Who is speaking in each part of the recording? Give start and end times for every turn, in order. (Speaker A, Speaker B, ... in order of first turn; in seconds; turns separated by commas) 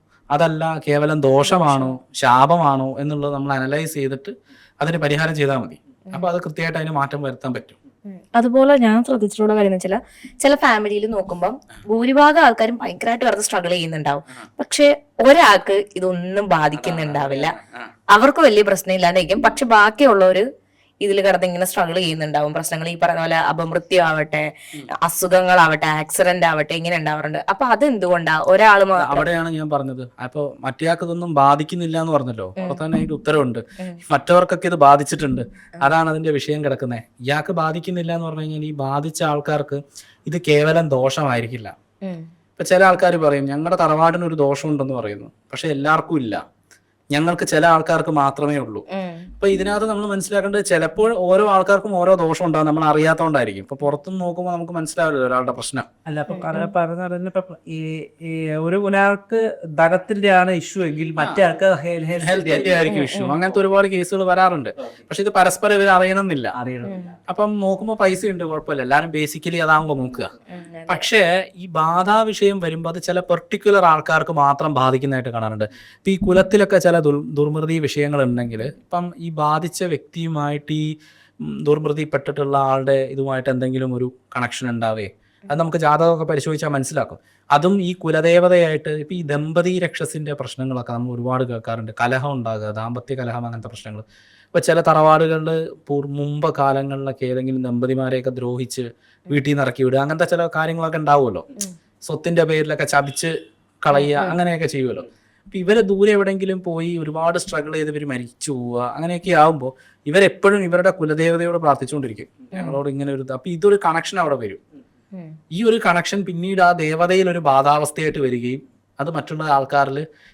Speaker A: 0.3-7.8, Speaker B: 1.4-1.9, Speaker B: 8.1-17.5, Speaker A: 16.8-17.9, Speaker B: 18.1-20.4, Speaker B: 21.0-24.4, Speaker B: 25.0-29.3, Speaker A: 28.9-41.7, Speaker A: 42.6-46.4, Speaker A: 47.1-48.8, Speaker B: 48.9-49.3, Speaker A: 49.4-55.9, Speaker C: 56.1-62.8, Speaker B: 56.3-56.7, Speaker A: 62.2-66.5, Speaker B: 62.8-63.4, Speaker C: 66.5-67.0, Speaker B: 66.8-67.1, Speaker A: 67.3-70.3, Speaker B: 70.5-71.0, Speaker A: 70.9-80.9, Speaker A: 81.4-101.4, Speaker A: 102.0-114.6, Speaker B: 103.9-104.4, Speaker B: 112.5-112.8, Speaker A: 115.5-120.0